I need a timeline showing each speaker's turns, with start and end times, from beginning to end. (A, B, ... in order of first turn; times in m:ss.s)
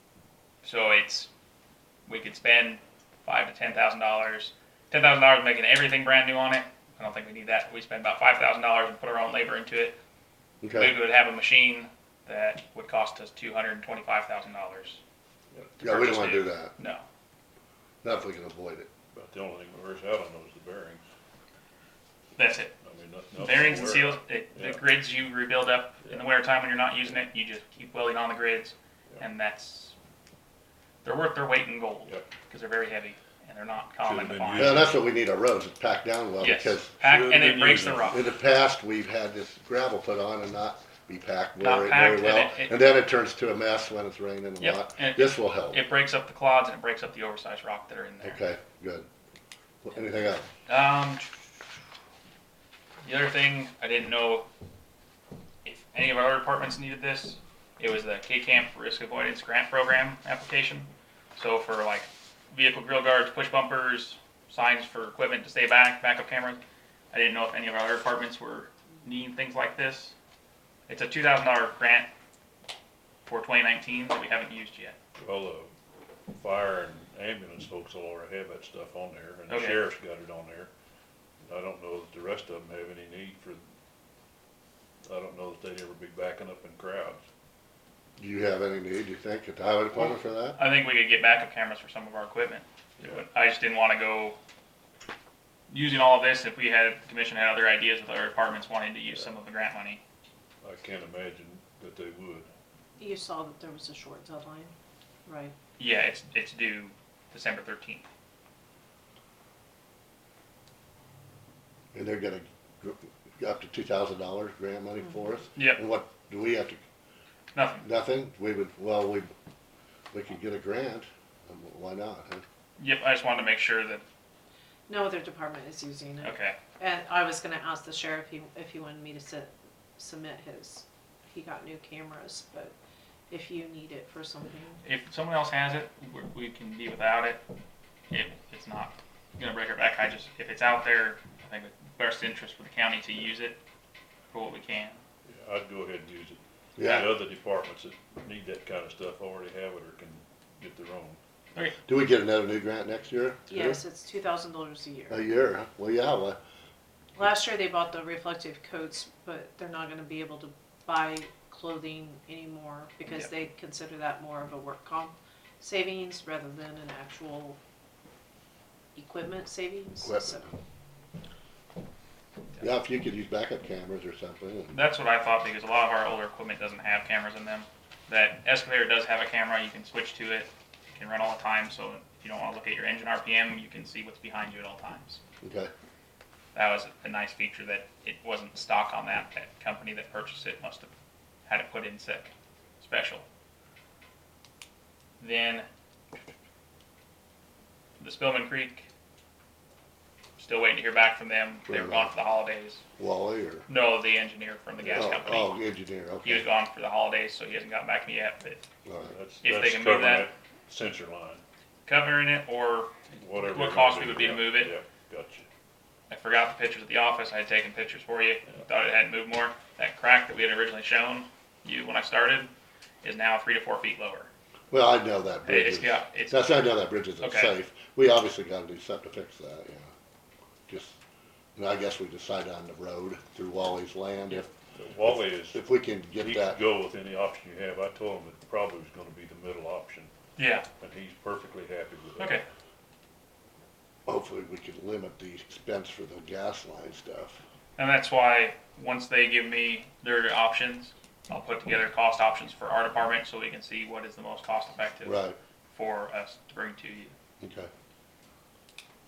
0:00.6-0:01.3 A
0:02.1-0:10.0 A
0:10.6-0:11.0 B
0:10.7-0:15.0 A
0:15.8-0:16.8 B
0:15.8-0:17.0 A
0:18.0-0:18.9 B
0:19.1-0:21.0 C
0:22.4-0:22.7 A
0:22.8-0:24.8 C
0:23.4-0:30.0 A
0:31.0-0:34.9 A
0:34.0-0:35.0 C
0:34.6-0:36.9 B
0:36.4-0:38.2 A
0:37.0-0:38.2 C
0:38.1-0:45.8 B
0:41.6-0:42.7 A
0:44.6-0:48.4 A
0:48.2-0:49.1 B
0:49.8-0:50.5 B
0:50.7-0:51.3 A
0:53.0-0:54.5 A
0:55.6-1:06.6 A
1:07.1-1:10.2 A
1:10.9-1:12.1 A
1:13.3-1:15.0 A
1:15.2-1:15.7 C
1:16.3-1:20.7 C
1:19.5-1:19.8 A
1:21.5-1:23.6 C
1:25.0-1:27.2 C
1:28.2-1:30.6 B
1:30.6-1:34.4 A
1:35.7-1:40.0 A
1:40.6-1:42.5 C
1:43.0-1:44.7 D
1:45.3-1:45.6 D
1:45.8-1:48.1 A
1:51.9-1:56.8 B
1:55.6-1:55.8 A
1:57.5-1:57.9 A
1:57.8-1:59.3 B
2:00.1-2:02.4 B
2:02.8-2:04.0 A
2:04.9-2:12.8 D
2:06.2-2:06.6 A
2:13.3-2:14.8 D
2:14.8-2:17.4 A
2:18.1-2:23.6 A
2:24.3-2:25.0 A
2:25.3-2:31.2 C
2:26.8-2:27.2 B
2:31.9-2:33.8 B
2:33.5-2:35.2 D
2:35.1-2:36.4 B
2:37.2-2:47.6 D
2:49.0-2:50.5 D
2:50.0-2:50.4 B
2:52.6-2:54.8 B
2:54.7-3:05.2 A
3:05.4-3:05.7 B
3:06.5-3:10.9 A
3:11.5-3:13.2 A
3:15.2-3:15.7 A
3:18.0-3:18.9 A
3:20.4-3:22.8 A
3:21.7-3:22.1 B
3:23.0-3:23.7 B
3:23.7-3:25.6 A
3:24.9-3:26.5 B
3:26.2-3:28.6 A
3:28.9-3:29.2 B
3:29.1-3:31.4 C
3:29.4-3:30.3 A
3:31.9-3:34.7 A
3:33.1-3:35.5 C
3:36.1-3:42.5 A
3:43.0-3:44.3 A
3:44.7-3:49.9 B
3:45.5-3:46.5 A
3:47.2-3:47.5 A
3:50.7-3:51.0 B
3:51.6-3:54.5 B
3:54.8-3:55.6 C
3:55.4-3:56.6 B
3:56.2-4:00.1 C
4:00.4-4:00.7 A
4:00.8-4:02.4 C
4:02.2-4:02.4 A
4:04.1-4:07.4 B
4:07.8-4:17.1 A
4:15.0-4:15.4 B
4:17.4-4:17.7 B